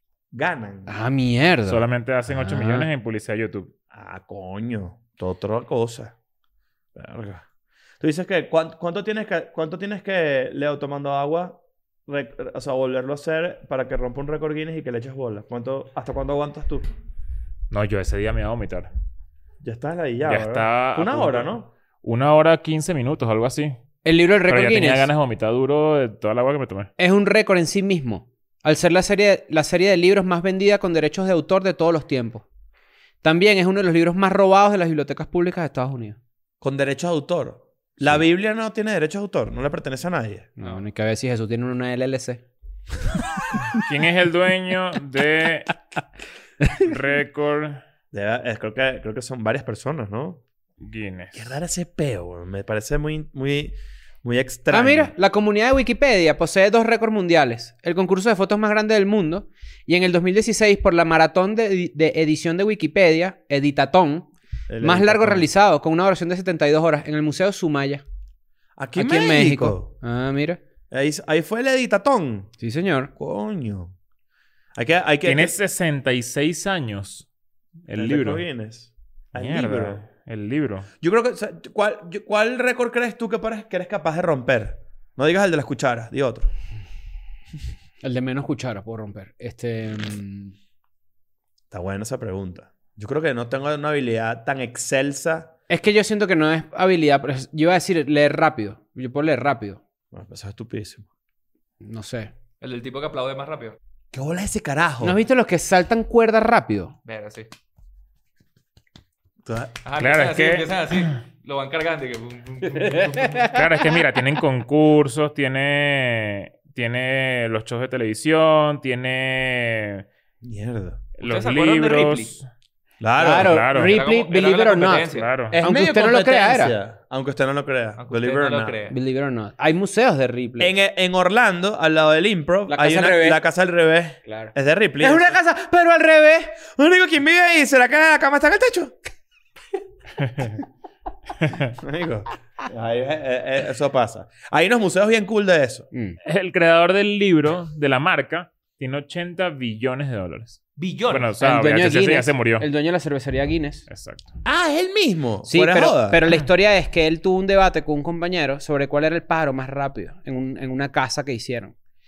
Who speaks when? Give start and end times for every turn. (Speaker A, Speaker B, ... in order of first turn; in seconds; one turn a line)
Speaker A: 0.3-0.9
Speaker B: 0.9-2.9
Speaker C: 1.7-3.7
Speaker A: 3.9-6.1
Speaker A: 6.9-7.4
Speaker A: 8.0-16.9
Speaker C: 17.7-18.9
Speaker A: 19.6-21.7
Speaker C: 20.2-23.8
Speaker B: 24.0-25.1
Speaker C: 24.5-26.9
Speaker B: 27.0-32.4
Speaker B: 33.2-36.2
Speaker A: 36.6-40.5
Speaker B: 40.6-42.4
Speaker C: 43.7-45.7
Speaker C: 46.7-47.8
Speaker A: 48.1-50.4
Speaker C: 50.8-51.5
Speaker A: 51.3-55.1
Speaker B: 54.7-64.3
Speaker A: 64.7-65.5
Speaker B: 64.8-68.0
Speaker A: 68.8-69.9
Speaker B: 69.0-70.6
Speaker A: 70.9-72.5
Speaker B: 72.6-73.1
Speaker A: 73.2-73.9
Speaker A: 74.7-75.6
Speaker C: 75.2-77.3
Speaker C: 77.9-78.4
Speaker A: 78.0-80.0
Speaker C: 79.4-80.9
Speaker A: 81.0-86.5
Speaker B: 88.0-90.5
Speaker A: 91.7-95.5
Speaker B: 95.7-99.8
Speaker A: 100.1-101.0
Speaker B: 101.8-102.3
Speaker D: 102.6-103.8
Speaker A: 104.1-105.2
Speaker B: 105.0-106.9
Speaker D: 107.0-107.5
Speaker A: 109.4-109.7
Speaker D: 109.8-113.5
Speaker C: 110.0-111.0
Speaker B: 112.8-113.7
Speaker C: 113.5-120.0
Speaker A: 120.4-121.0
Speaker C: 121.2-122.5
Speaker D: 121.2-122.3
Speaker A: 123.0-123.6
Speaker B: 123.2-126.8
Speaker C: 123.3-124.0
Speaker D: 123.8-125.4
Speaker C: 125.1-125.6
Speaker A: 125.5-128.8
Speaker D: 128.0-128.9
Speaker B: 128.9-130.7
Speaker A: 130.6-135.3
Speaker B: 132.7-133.4
Speaker B: 134.2-136.6
Speaker A: 136.7-138.9
Speaker C: 141.4-141.7
Speaker A: 141.8-145.9
Speaker B: 145.9-146.2
Speaker C: 146.2-152.7
Speaker D: 150.8-151.3
Speaker B: 151.4-153.9
Speaker C: 153.9-154.3
Speaker A: 154.4-156.2
Speaker B: 155.5-161.7